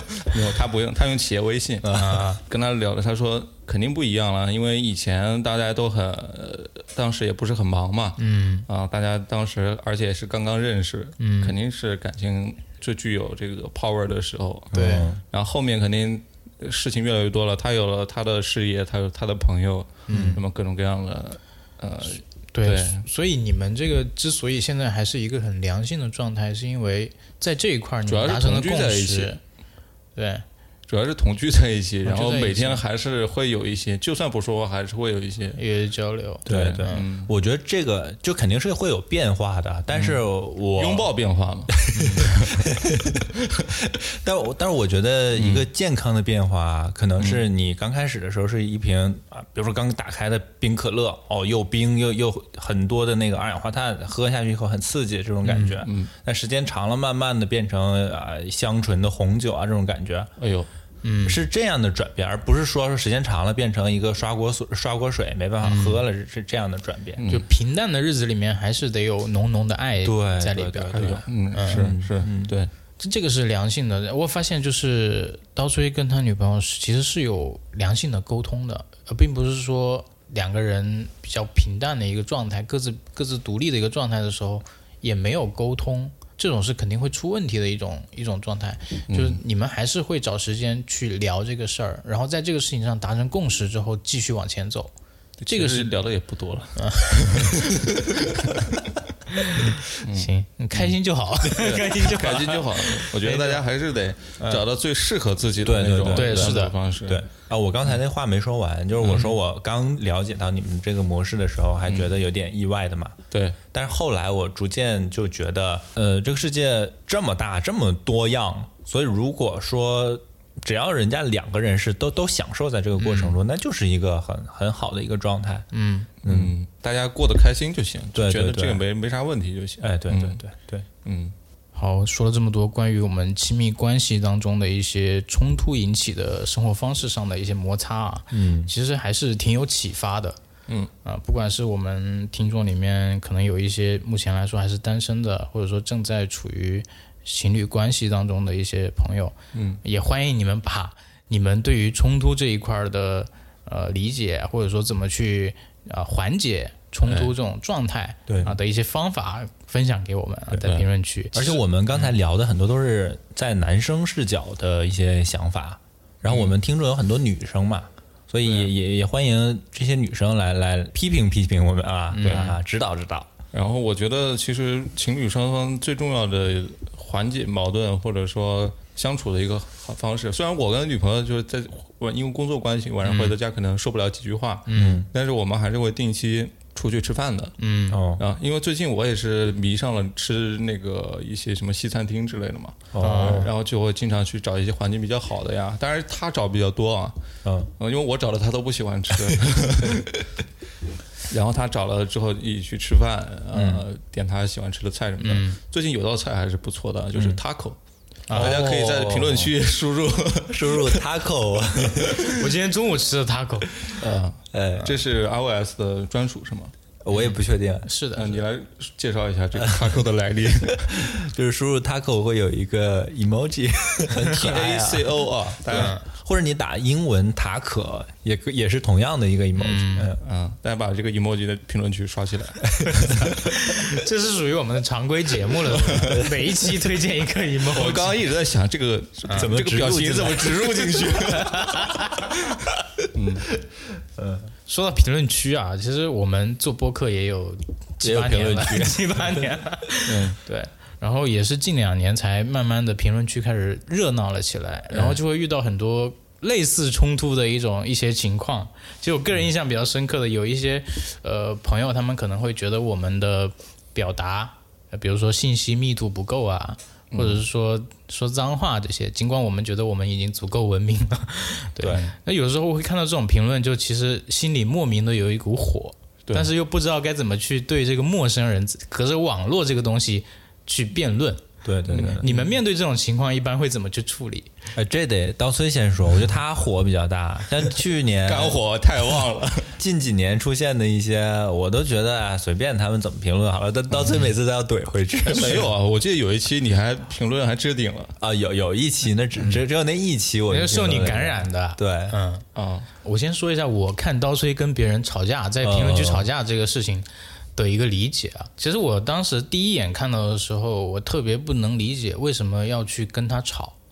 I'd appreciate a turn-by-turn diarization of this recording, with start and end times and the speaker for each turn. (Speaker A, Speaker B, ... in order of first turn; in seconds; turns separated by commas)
Speaker A: 0.2-23.0, Speaker B: 1.8-2.1, Speaker C: 1.9-2.4, Speaker C: 8.2-8.7, Speaker C: 11.2-11.5, Speaker C: 14.7-15.1, Speaker B: 14.7-15.2, Speaker C: 20.1-20.4, Speaker B: 20.1-20.4, Speaker C: 22.5-29.4, Speaker A: 28.1-29.4, Speaker C: 30.1-30.4, Speaker A: 30.9-35.6, Speaker C: 32.0-32.8, Speaker C: 35.5-37.0, Speaker B: 36.5-41.1, Speaker A: 36.5-37.3, Speaker A: 39.9-42.6, Speaker B: 41.9-60.3, Speaker C: 41.9-42.3, Speaker A: 45.4-45.6, Speaker A: 47.2-47.4, Speaker A: 55.4-56.1, Speaker A: 60.4-60.7, Speaker C: 61.0-61.4, Speaker B: 61.2-67.2, Speaker C: 65.6-66.0, Speaker A: 67.2-67.5, Speaker C: 67.3-71.9, Speaker B: 70.0-72.6, Speaker A: 70.9-72.7, Speaker C: 73.0-94.9, Speaker A: 89.1-89.4, Speaker A: 95.4-98.7, Speaker C: 95.5-95.9, Speaker C: 96.8-97.5, Speaker C: 99.3-103.6, Speaker A: 100.0-100.9, Speaker A: 101.5-107.2, Speaker C: 104.4-104.6, Speaker B: 105.6-113.2, Speaker C: 106.1-106.7, Speaker A: 109.0-109.3, Speaker A: 113.3-113.6, Speaker B: 113.7-125.7, Speaker C: 125.7-126.1, Speaker A: 126.2-130.4, Speaker B: 126.2-126.5, Speaker B: 128.1-128.8, Speaker B: 129.8-130.9, Speaker A: 131.0-131.3, Speaker C: 131.7-140.4, Speaker B: 138.3-138.7, Speaker C: 141.0-161.6, Speaker A: 149.5-149.8, Speaker A: 157.1-157.3, Speaker B: 158.3-158.6, Speaker B: 161.3-173.3, Speaker A: 166.2-166.5, Speaker A: 168.4-168.7, Speaker C: 172.1-172.5, Speaker A: 172.2-172.5, Speaker A: 173.5-187.6, Speaker C: 183.0-183.3, Speaker C: 184.7-185.0, Speaker B: 184.7-185.1, Speaker C: 187.6-188.0, Speaker B: 187.9-188.2, Speaker A: 188.1-197.2, Speaker B: 192.9-193.5, Speaker C: 193.0-193.5, Speaker B: 197.4-197.7, Speaker A: 197.8-200.2, Speaker A: 201.3-207.8, Speaker B: 203.5-203.8, Speaker C: 205.2-205.6, Speaker B: 207.2-207.4, Speaker C: 208.3-208.6, Speaker A: 208.3-211.0, Speaker B: 208.3-209.5, Speaker B: 210.5-212.3, Speaker A: 211.9-212.3, Speaker C: 212.3-213.7, Speaker A: 214.0-216.7, Speaker B: 214.5-215.0, Speaker B: 217.0-217.9, Speaker C: 217.8-218.4, Speaker A: 218.2-221.0, Speaker B: 219.5-219.9, Speaker B: 220.8-230.2, Speaker A: 224.3-225.9, Speaker C: 225.7-226.0, Speaker C: 229.6-230.1, Speaker A: 230.2-233.3, Speaker C: 233.1-238.2, Speaker B: 236.0-236.3, Speaker A: 237.7-241.8, Speaker B: 239.3-241.2, Speaker C: 241.3-242.3, Speaker A: 243.1-243.5, Speaker B: 243.9-244.5, Speaker C: 244.7-284.5, Speaker B: 248.0-248.9, Speaker A: 248.4-248.9, Speaker A: 250.1-250.4, Speaker A: 254.9-255.2, Speaker A: 267.1-267.4, Speaker B: 281.6-282.3, Speaker A: 281.9-282.4, Speaker B: 284.8-288.6, Speaker A: 288.2-289.7, Speaker B: 289.8-295.7, Speaker A: 295.3-298.1, Speaker B: 298.2-302.1, Speaker C: 300.5-302.4, Speaker A: 302.6-302.9, Speaker C: 303.0-313.8, Speaker B: 305.6-306.3